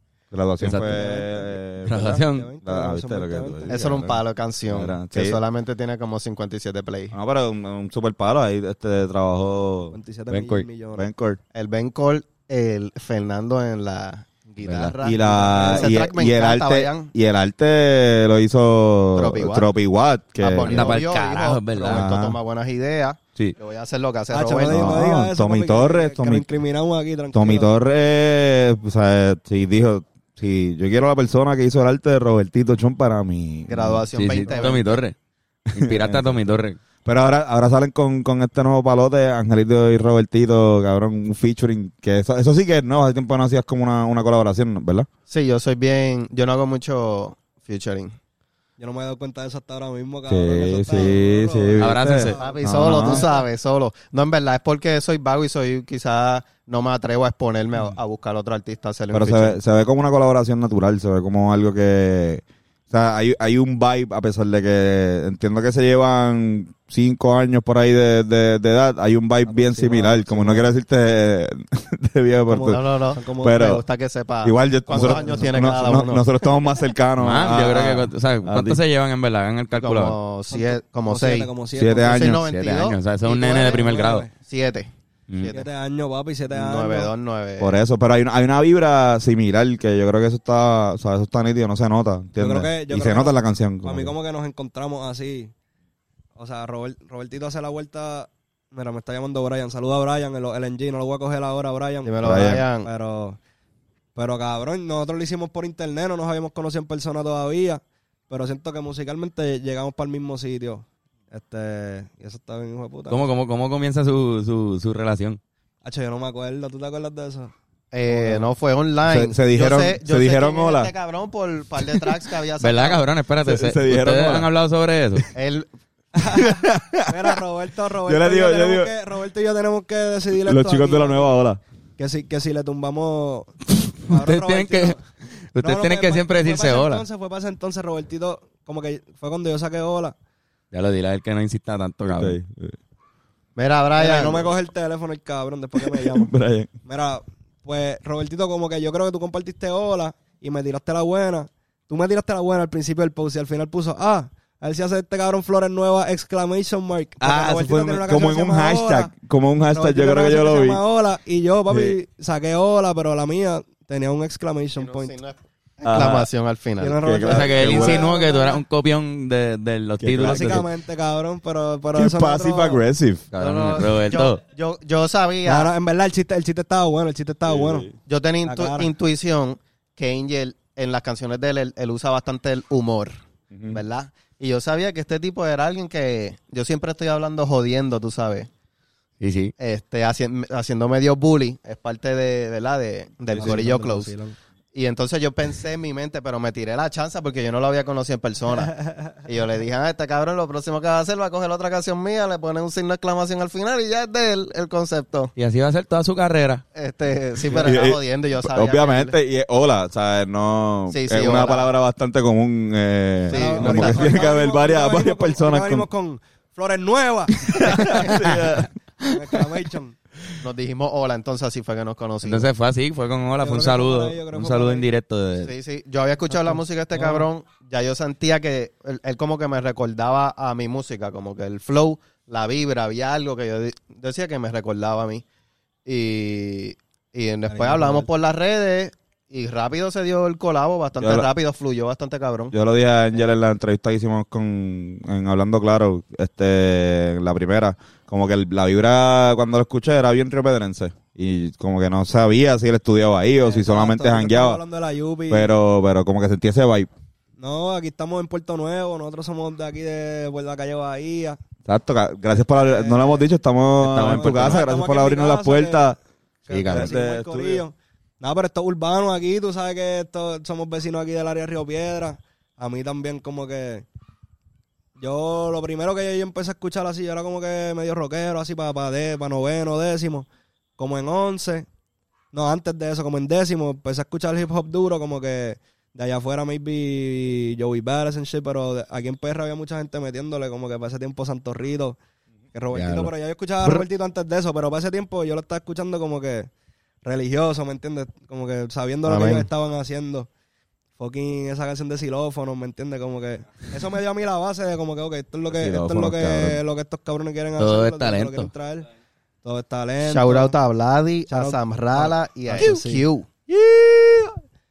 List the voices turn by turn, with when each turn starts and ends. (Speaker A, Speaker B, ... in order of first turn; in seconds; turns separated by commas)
Speaker A: 0.3-5.4, Speaker B: 0.6-0.9, Speaker C: 0.7-3.9, Speaker B: 1.9-2.5, Speaker D: 3.7-7.2, Speaker A: 7.1-9.9, Speaker C: 9.9-11.1, Speaker B: 10.3-10.7, Speaker A: 10.9-11.4, Speaker D: 11.5-17.1, Speaker B: 14.6-14.9, Speaker A: 15.0-21.0, Speaker C: 15.6-15.9, Speaker D: 19.2-19.7, Speaker D: 20.4-25.0, Speaker B: 20.6-22.1, Speaker A: 21.9-22.4, Speaker C: 24.3-27.7, Speaker A: 24.6-26.6, Speaker A: 27.3-34.1, Speaker D: 33.7-35.0, Speaker B: 34.1-35.1, Speaker A: 35.7-36.4, Speaker B: 35.7-36.8, Speaker A: 37.0-45.1, Speaker D: 45.3-48.1, Speaker C: 48.8-53.4, Speaker A: 50.3-53.3, Speaker B: 51.8-52.4, Speaker D: 52.3-59.6, Speaker A: 59.1-73.8, Speaker C: 69.5-70.7, Speaker C: 72.5-73.7, Speaker D: 72.7-76.2, Speaker A: 74.4-78.8, Speaker C: 74.9-75.5, Speaker B: 77.2-80.2, Speaker D: 79.7-83.9, Speaker C: 80.5-82.2, Speaker A: 81.8-82.4, Speaker B: 82.5-84.3, Speaker C: 83.7-84.3, Speaker D: 84.4-85.7, Speaker C: 85.5-87.1, Speaker D: 86.5-87.8, Speaker A: 87.6-94.1, Speaker C: 92.4-95.5, Speaker C: 96.4-103.4, Speaker D: 102.0-102.9, Speaker A: 102.2-102.7, Speaker C: 104.2-113.3, Speaker B: 113.1-115.4, Speaker C: 115.8-117.5, Speaker D: 117.9-123.0, Speaker C: 118.1-118.5, Speaker A: 119.0-120.9, Speaker B: 122.6-125.3, Speaker A: 123.4-124.5, Speaker D: 125.3-125.7, Speaker C: 126.2-126.5, Speaker A: 126.4-127.1, Speaker C: 127.1-131.3, Speaker A: 128.1-128.9, Speaker A: 130.4-131.6, Speaker C: 132.0-133.6, Speaker C: 134.1-135.0, Speaker B: 134.1-135.0, Speaker B: 135.5-137.1, Speaker C: 135.6-140.2, Speaker B: 140.7-142.4, Speaker A: 142.1-142.8, Speaker D: 143.6-144.5, Speaker C: 144.0-146.3, Speaker A: 145.8-146.7, Speaker C: 146.9-159.1, Speaker A: 157.2-160.8, Speaker C: 159.7-165.1, Speaker A: 161.7-162.0, Speaker D: 164.8-167.2, Speaker A: 165.8-166.3, Speaker B: 165.9-166.2, Speaker C: 166.8-168.6, Speaker A: 167.0-168.1, Speaker B: 167.3-170.6, Speaker A: 170.0-170.6, Speaker C: 170.2-172.8, Speaker A: 171.9-173.3, Speaker B: 173.3-174.4, Speaker D: 173.4-175.7, Speaker C: 175.4-177.9, Speaker A: 177.5-177.9, Speaker D: 178.1-183.2, Speaker C: 178.4-178.9, Speaker A: 183.5-183.8, Speaker D: 183.7-188.5, Speaker B: 189.2-189.5, Speaker D: 189.6-194.1, Speaker C: 193.3-194.4, Speaker D: 194.7-205.3, Speaker B: 205.4-206.6, Speaker D: 206.8-209.2, Speaker C: 207.5-207.8, Speaker A: 207.6-215.9, Speaker D: 210.9-211.7, Speaker D: 213.3-214.3, Speaker C: 213.3-218.3, Speaker A: 217.5-218.7, Speaker C: 219.1-220.0, Speaker D: 220.4-222.5, Speaker B: 222.2-225.5, Speaker C: 223.4-224.9, Speaker D: 225.4-235.2, Speaker C: 226.4-227.3, Speaker D: 235.9-242.5, Speaker C: 237.5-238.1, Speaker A: 241.0-241.3, Speaker A: 242.5-254.6, Speaker C: 253.4-255.5, Speaker A: 255.3-256.9, Speaker C: 257.4-261.4, Speaker A: 261.7-266.0, Speaker C: 262.5-263.3, Speaker B: 263.8-264.6, Speaker C: 264.0-265.9, Speaker C: 266.5-273.9, Speaker B: 266.5-267.0, Speaker A: 266.7-267.6, Speaker C: 275.0-280.3, Speaker C: 280.8-281.7, Speaker C: 282.3-292.0, Speaker C: 292.5-296.5, Speaker B: 292.7-293.1, Speaker C: 297.0-300.3, Speaker D: 299.1-299.5, Speaker C: 301.0-308.9, Speaker A: 305.5-306.6, Speaker B: 307.6-308.5, Speaker C: 309.4-310.6, Speaker D: 310.0-313.3, Speaker C: 311.3-314.4